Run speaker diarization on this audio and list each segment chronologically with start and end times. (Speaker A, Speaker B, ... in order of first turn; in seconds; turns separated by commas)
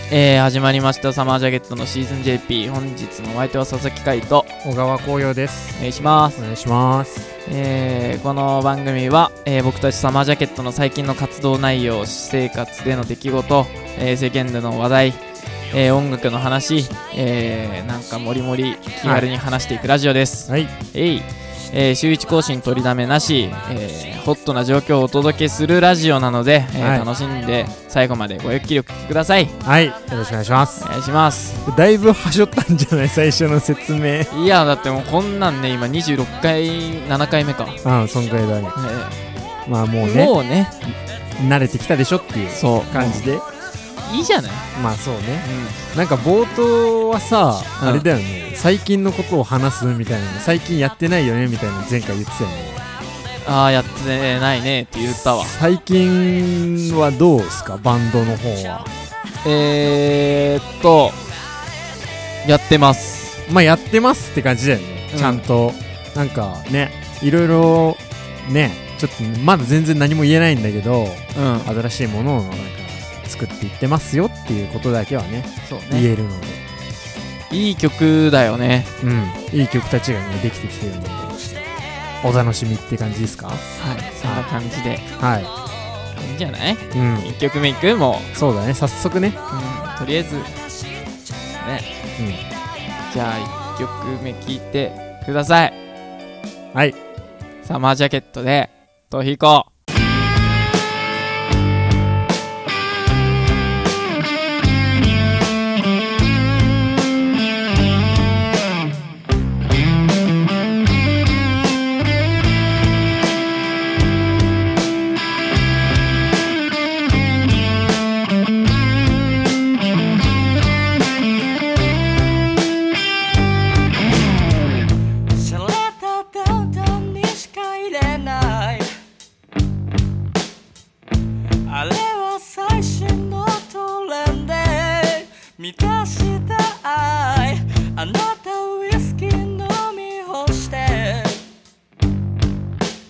Speaker A: 0.1-4.5, Speaker B: 4.6-5.8, Speaker A: 5.8-6.4, Speaker B: 6.3-7.3, Speaker A: 7.5-29.5, Speaker B: 20.5-20.7, Speaker B: 26.8-27.1, Speaker B: 29.6-30.9, Speaker A: 30.8-31.6, Speaker B: 31.6-34.3, Speaker A: 34.3-37.8, Speaker B: 37.8-38.8, Speaker A: 38.7-39.2, Speaker B: 39.6-40.3, Speaker A: 40.0-40.7, Speaker B: 40.9-43.5, Speaker A: 42.5-43.2, Speaker A: 44.0-44.6, Speaker B: 44.7-52.8, Speaker A: 45.4-45.8, Speaker A: 47.8-48.1, Speaker A: 53.4-55.5, Speaker B: 55.1-58.9, Speaker A: 59.4-61.2, Speaker A: 62.4-63.4, Speaker B: 63.5-76.6, Speaker A: 65.1-65.4, Speaker A: 71.3-71.7, Speaker A: 75.7-76.1, Speaker A: 77.5-78.9, Speaker B: 79.0-81.3, Speaker B: 82.2-83.6, Speaker A: 83.8-85.0, Speaker B: 84.2-84.5, Speaker B: 85.2-85.5, Speaker A: 86.2-88.3, Speaker B: 86.9-87.3, Speaker B: 88.3-89.4, Speaker A: 89.5-90.5, Speaker A: 91.6-91.8, Speaker B: 92.2-92.4, Speaker A: 93.1-95.8, Speaker A: 97.6-99.7, Speaker C: 125.3-128.9, Speaker C: 131.7-141.4